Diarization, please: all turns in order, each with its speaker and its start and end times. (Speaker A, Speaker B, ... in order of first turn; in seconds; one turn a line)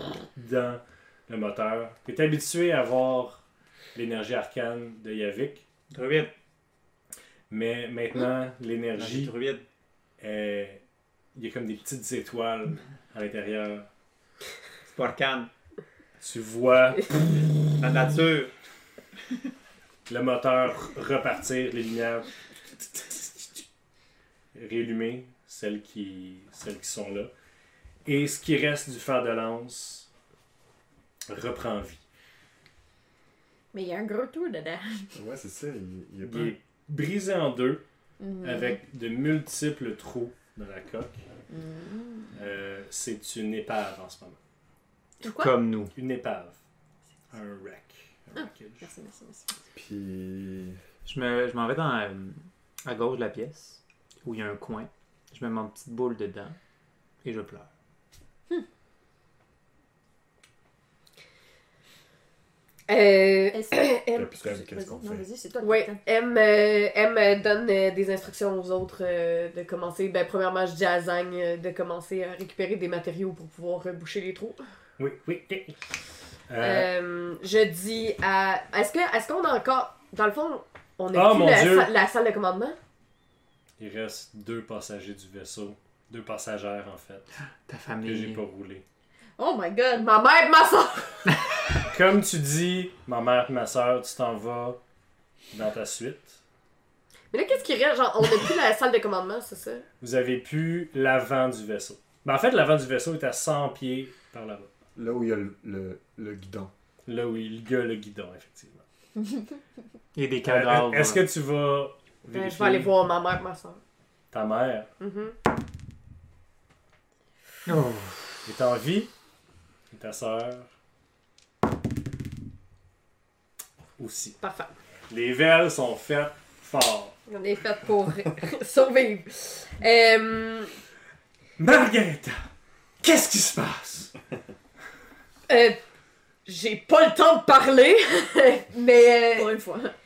Speaker A: 0.3-3.4
Speaker A: 4.0-5.6
Speaker B: 5.9-6.3
Speaker A: 7.5-9.4
Speaker B: 9.0-9.6
Speaker A: 10.2-10.8
Speaker A: 11.3-13.9
Speaker B: 14.9-15.5
Speaker A: 16.2-17.6
Speaker B: 17.8-18.5
Speaker A: 20.1-22.3
Speaker A: 23.0-23.4
Speaker A: 24.5-27.3
Speaker A: 28.1-30.1
Speaker A: 31.3-32.0
Speaker C: 33.7-35.1
Speaker D: 35.1-36.6
Speaker A: 36.2-37.8
Speaker C: 38.2-38.8
Speaker A: 38.4-41.2
Speaker C: 41.5-42.3
Speaker A: 42.4-44.4
Speaker C: 45.2-45.5
Speaker B: 45.2-45.9
Speaker A: 45.9-46.6
Speaker A: 47.3-48.9
Speaker C: 48.4-49.6
Speaker D: 49.7-50.8
Speaker B: 51.0-56.6
Speaker B: 57.2-57.7
Speaker E: 62.9-64.4
Speaker C: 63.5-66.0
Speaker D: 64.1-65.3
Speaker E: 65.6-74.6
Speaker A: 75.0-75.8
Speaker A: 76.5-76.9
Speaker E: 76.6-82.8
Speaker A: 81.1-81.9
Speaker A: 83.8-87.3
Speaker B: 87.7-88.4
Speaker A: 88.0-88.8
Speaker C: 89.4-90.1
Speaker E: 90.0-91.3
Speaker A: 91.9-94.8
Speaker A: 95.5-96.4
Speaker E: 97.3-99.9
Speaker A: 100.0-104.7
Speaker D: 105.0-106.7
Speaker A: 107.1-108.8
Speaker B: 110.1-111.3
Speaker A: 110.4-112.9
Speaker E: 112.3-113.8
Speaker A: 114.3-114.9
Speaker E: 115.0-115.4
Speaker B: 117.7-118.4
Speaker A: 118.5-119.1
Speaker A: 119.9-120.7
Speaker A: 124.0-124.4
Speaker E: 124.4-124.7
Speaker A: 125.1-127.2
Speaker E: 127.3-130.7
Speaker A: 131.6-132.4
Speaker A: 133.0-134.1
Speaker E: 135.5-135.8
Speaker E: 136.5-139.6
Speaker C: 139.3-139.9